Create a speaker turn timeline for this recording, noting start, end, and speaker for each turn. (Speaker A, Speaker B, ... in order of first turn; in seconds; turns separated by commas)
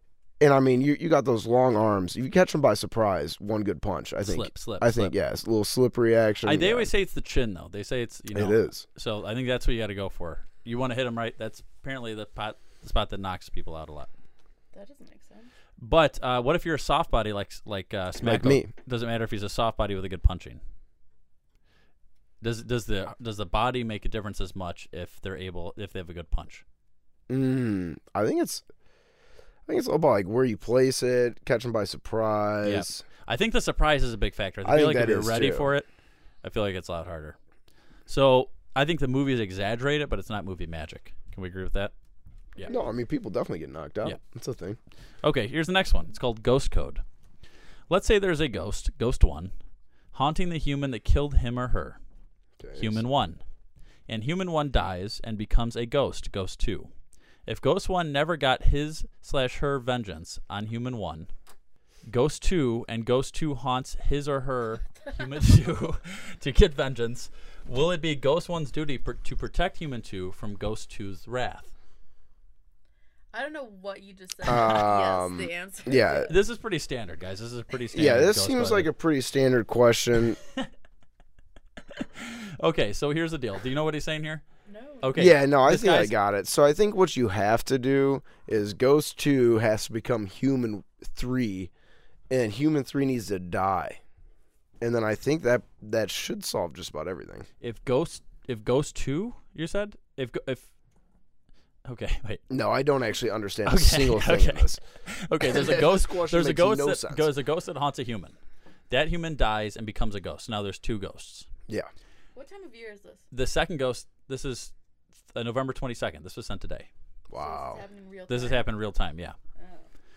Speaker A: 0.4-6.9, Speaker B: 4.2-5.1, Speaker B: 6.5-14.1, Speaker A: 8.3-8.8, Speaker C: 14.7-15.5, Speaker B: 15.8-20.6, Speaker A: 18.2-18.7, Speaker B: 22.4-26.6, Speaker A: 27.3-28.6, Speaker A: 29.7-33.0, Speaker B: 32.6-35.9, Speaker A: 34.6-35.7, Speaker B: 36.4-37.4, Speaker B: 38.1-41.9, Speaker A: 42.6-44.8, Speaker B: 45.2-47.0, Speaker B: 47.9-49.5, Speaker B: 50.1-52.0, Speaker A: 52.6-53.0, Speaker B: 52.8-53.4, Speaker B: 54.1-56.9, Speaker B: 57.5-61.3, Speaker B: 62.0-71.7, Speaker C: 73.3-76.3, Speaker A: 74.4-76.3, Speaker B: 76.3-78.9, Speaker A: 77.9-80.4, Speaker B: 82.0-84.4, Speaker C: 84.7-85.1, Speaker B: 85.0-86.1, Speaker A: 85.2-91.7, Speaker A: 92.3-94.0, Speaker A: 94.8-97.5, Speaker B: 97.6-100.7, Speaker B: 101.8-102.4, Speaker A: 102.5-104.8, Speaker B: 103.7-108.4, Speaker A: 105.4-107.3, Speaker B: 108.9-111.5, Speaker C: 112.3-113.2, Speaker B: 113.3-114.7, Speaker B: 115.3-116.9, Speaker A: 117.3-117.8, Speaker C: 117.3-118.6, Speaker B: 118.3-119.3, Speaker C: 119.5-119.8